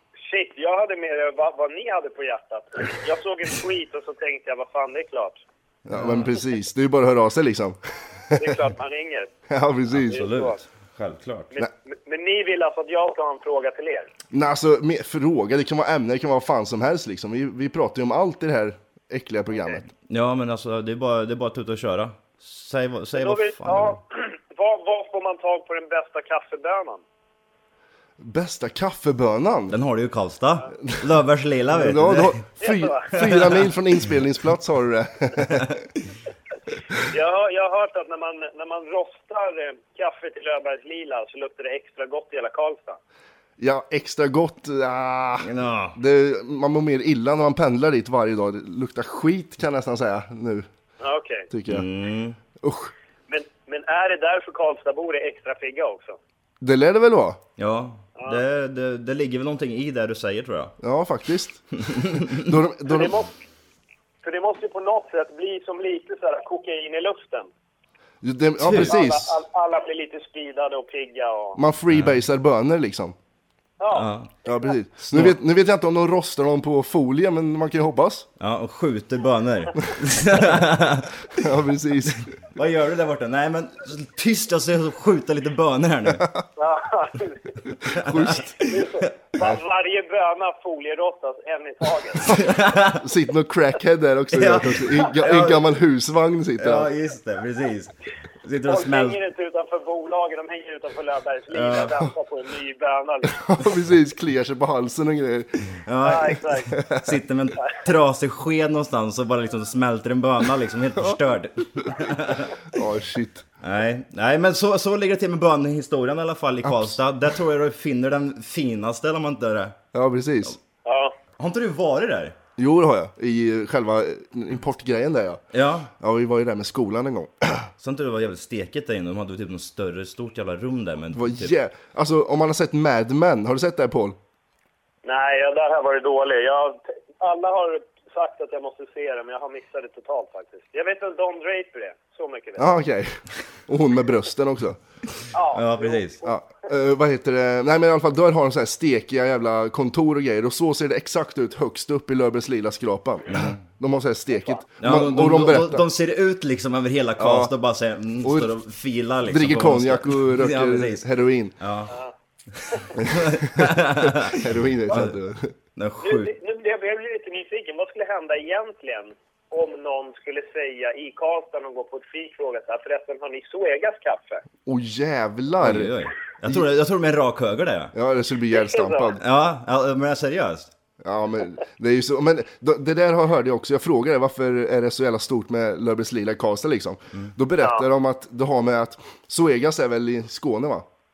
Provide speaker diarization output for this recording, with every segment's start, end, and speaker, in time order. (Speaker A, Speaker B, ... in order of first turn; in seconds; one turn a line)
Speaker A: 0.3-5.4
Speaker B: 5.8-8.6
Speaker C: 5.9-6.3
Speaker A: 8.4-9.3
Speaker B: 9.5-10.2
Speaker C: 9.9-11.5
Speaker A: 10.1-10.6
Speaker A: 11.5-14.1
Speaker B: 14.3-19.9
Speaker C: 20.1-24.0
Speaker A: 23.2-27.0
Speaker B: 28.2-29.8
Speaker C: 29.7-32.4
Speaker B: 31.7-35.8
Speaker A: 32.6-33.2
Speaker C: 33.2-33.7
Speaker A: 37.0-43.0
Speaker B: 43.6-50.7
Speaker C: 45.4-46.0
Speaker A: 51.0-51.5
Speaker B: 51.5-51.9
Speaker C: 51.7-52.4
Speaker B: 52.6-52.9
Speaker A: 53.3-56.2
Speaker B: 56.6-57.4
Speaker C: 57.6-60.8
Speaker B: 60.8-63.2
Speaker C: 61.8-62.5
Speaker A: 62.9-63.3
Speaker A: 64.2-67.5
Speaker B: 68.2-69.4
Speaker C: 68.6-69.0
Speaker A: 68.8-71.6
Speaker B: 71.6-73.2
Speaker C: 71.9-72.2
Speaker A: 73.8-74.1
Speaker C: 73.9-74.3
Speaker B: 74.5-78.3
Speaker C: 75.1-75.4
Speaker C: 78.4-81.4
Speaker B: 81.3-82.3
Speaker C: 82.1-86.3
Speaker A: 86.6-87.5
Speaker B: 87.9-88.8
Speaker C: 87.9-88.4
Speaker A: 88.6-92.4
Speaker C: 92.3-93.0
Speaker B: 92.9-96.9
Speaker C: 94.3-95.6
Speaker C: 96.6-99.2
Speaker A: 98.7-103.4
Speaker C: 101.5-102.0
Speaker B: 103.3-105.7
Speaker C: 105.8-112.6
Speaker A: 106.0-106.7
Speaker B: 106.8-107.1
Speaker B: 112.7-113.5
Speaker C: 113.6-119.8
Speaker B: 116.6-117.0
Speaker B: 119.9-120.6
Speaker A: 120.8-121.2
Speaker C: 121.4-122.4
Speaker B: 122.6-125.4
Speaker C: 125.5-125.9
Speaker B: 126.0-127.7
Speaker C: 127.8-131.5
Speaker B: 131.1-134.2
Speaker A: 135.0-142.8
Speaker B: 142.6-144.8
Speaker A: 145.3-146.3
Speaker C: 145.5-146.2
Speaker B: 146.2-155.9
Speaker C: 153.3-153.6
Speaker C: 154.8-161.1
Speaker B: 157.2-157.5
Speaker B: 158.2-158.5
Speaker B: 159.3-161.6
Speaker C: 161.6-161.9
Speaker C: 162.5-165.2
Speaker B: 163.0-165.6
Speaker C: 165.8-166.3
Speaker A: 166.0-174.4
Speaker B: 174.7-176.7
Speaker C: 175.6-177.9
Speaker B: 177.9-179.2
Speaker A: 178.5-179.1
Speaker C: 179.2-180.7
Speaker B: 181.0-190.8
Speaker A: 187.6-187.8